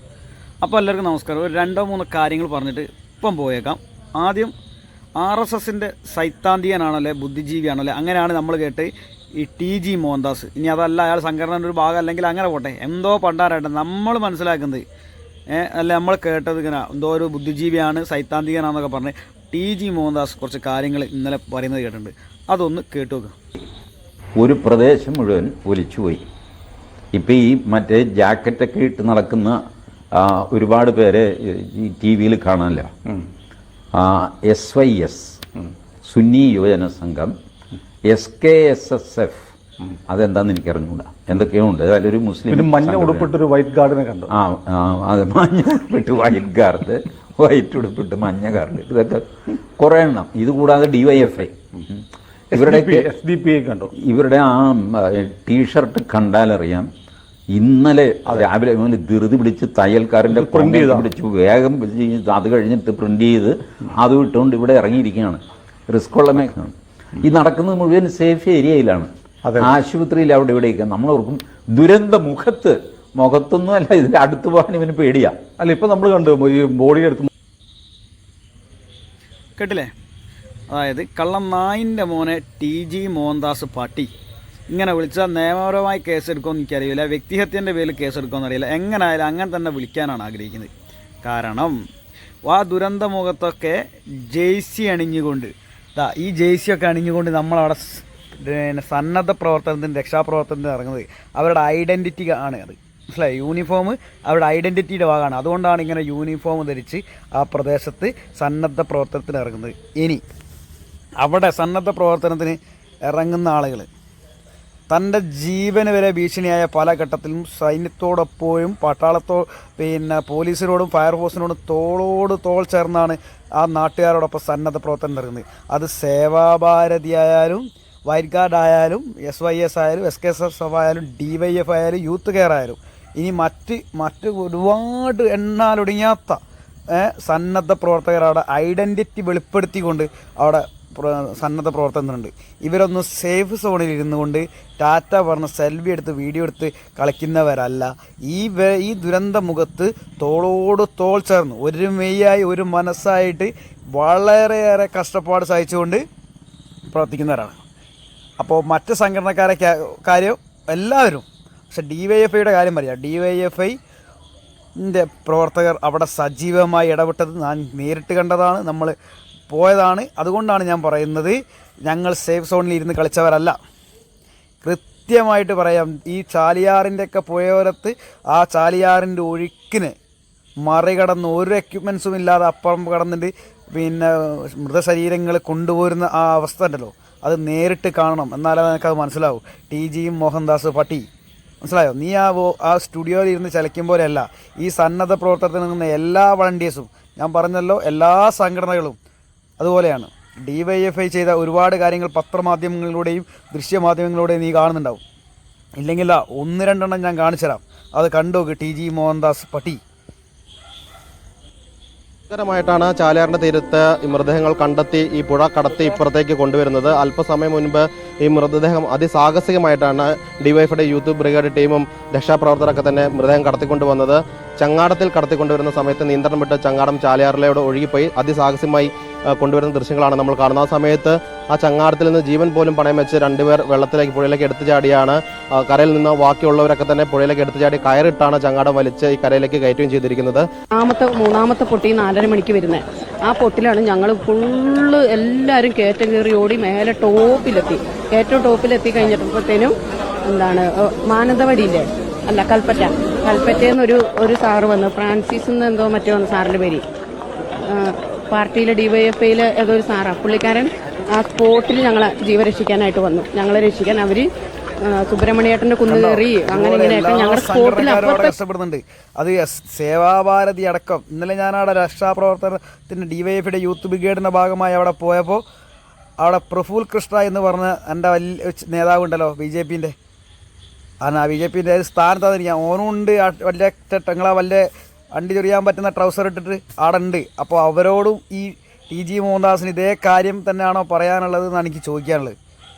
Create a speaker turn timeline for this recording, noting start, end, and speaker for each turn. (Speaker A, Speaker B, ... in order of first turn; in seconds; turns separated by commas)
Speaker A: 0.6-4.5, Speaker A: 5.2-14.8, Speaker A: 15.5-23.3, Speaker B: 24.4-26.2, Speaker B: 27.1-29.6, Speaker B: 30.1-32.9, Speaker B: 33.9-35.4, Speaker B: 36.0-37.3, Speaker B: 38.1-39.5, Speaker B: 40.1-43.3, Speaker C: 42.5-44.3, Speaker B: 44.3-52.0, Speaker C: 52.5-53.9, Speaker B: 52.5-53.1, Speaker B: 54.0-56.9, Speaker B: 57.5-75.4, Speaker C: 60.3-61.1, Speaker C: 69.5-69.7, Speaker C: 75.6-77.3, Speaker A: 79.6-79.9, Speaker A: 80.7-84.1, Speaker A: 84.7-90.7, Speaker A: 91.2-91.8, Speaker A: 92.5-110.2, Speaker A: 111.2-113.9, Speaker A: 114.9-136.4, Speaker A: 136.9-156.0, Speaker A: 156.9-157.6, Speaker A: 158.4-163.8, Speaker A: 164.8-168.9, Speaker A: 169.5-173.6, Speaker A: 174.6-179.9, Speaker A: 180.6-191.1, Speaker A: 191.6-199.0, Speaker A: 199.6-205.0, Speaker A: 205.8-209.8, Speaker D: 212.3-240.4, Speaker E: 240.7-256.9, Speaker E: 257.7-264.3, Speaker E: 264.8-268.3, Speaker A: 265.9-275.4, Speaker A: 276.2-279.9, Speaker A: 281.0-292.4